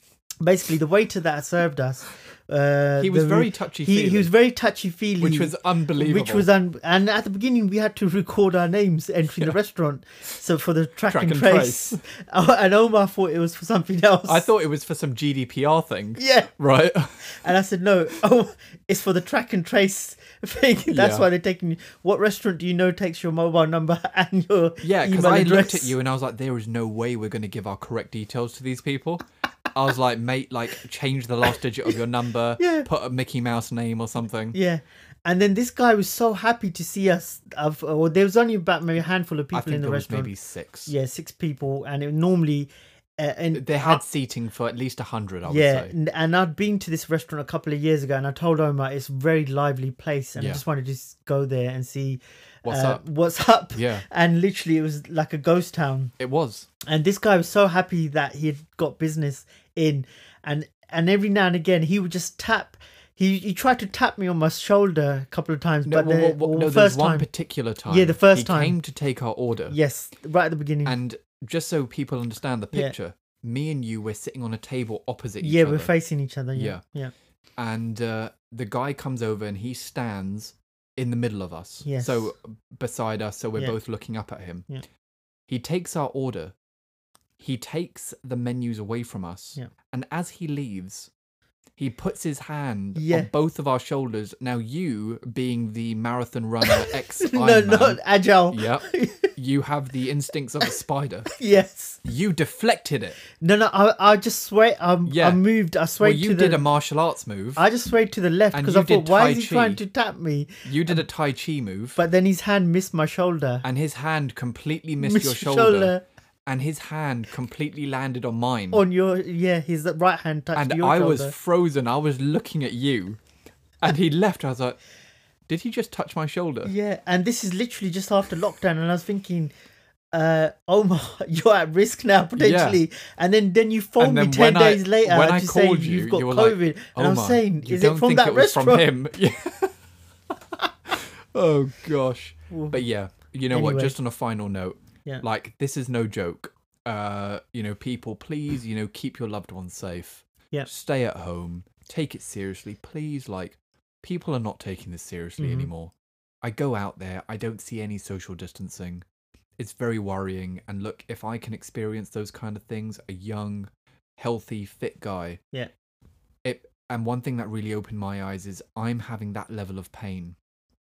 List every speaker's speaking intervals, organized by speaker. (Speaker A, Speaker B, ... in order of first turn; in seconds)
Speaker A: 0.4-14.5, 16.2-16.5, 17.2-25.9, 32.6-32.9, 34.5-40.3, 40.9-44.0, 45.4-56.1, 56.9-67.3, 67.9-68.8, 69.7-71.0, 75.4-77.1, 81.8-82.3, 92.9-93.3, 96.6-99.3, 101.3-102.0, 103.4-106.6, 107.5-111.0, 112.0-113.6, 115.0-116.0, 118.7-121.3, 126.6-129.5, 130.1-138.9, 142.5-142.8, 143.5-143.9, 155.4-155.7
Speaker B: 3.0-4.3, 5.2-6.5, 11.1-12.0, 14.2-17.4, 20.9-21.3, 24.8-34.6, 39.5-40.9, 43.5-45.9, 50.4-50.6, 52.6-53.0, 53.7-54.0, 56.2-56.7, 65.8-69.8, 70.8-75.9, 76.5-76.8, 77.6-84.7, 85.5-86.5, 87.4-91.1, 91.8-101.3, 102.0-103.2, 105.0-105.4, 106.0-107.7, 108.5-109.8, 110.6-112.0, 113.6-115.9, 116.5-118.8, 120.5-123.2, 123.8-124.8, 125.5-126.7, 132.4-132.8, 134.0-139.8, 140.8-159.0, 159.6-165.4, 166.4-170.3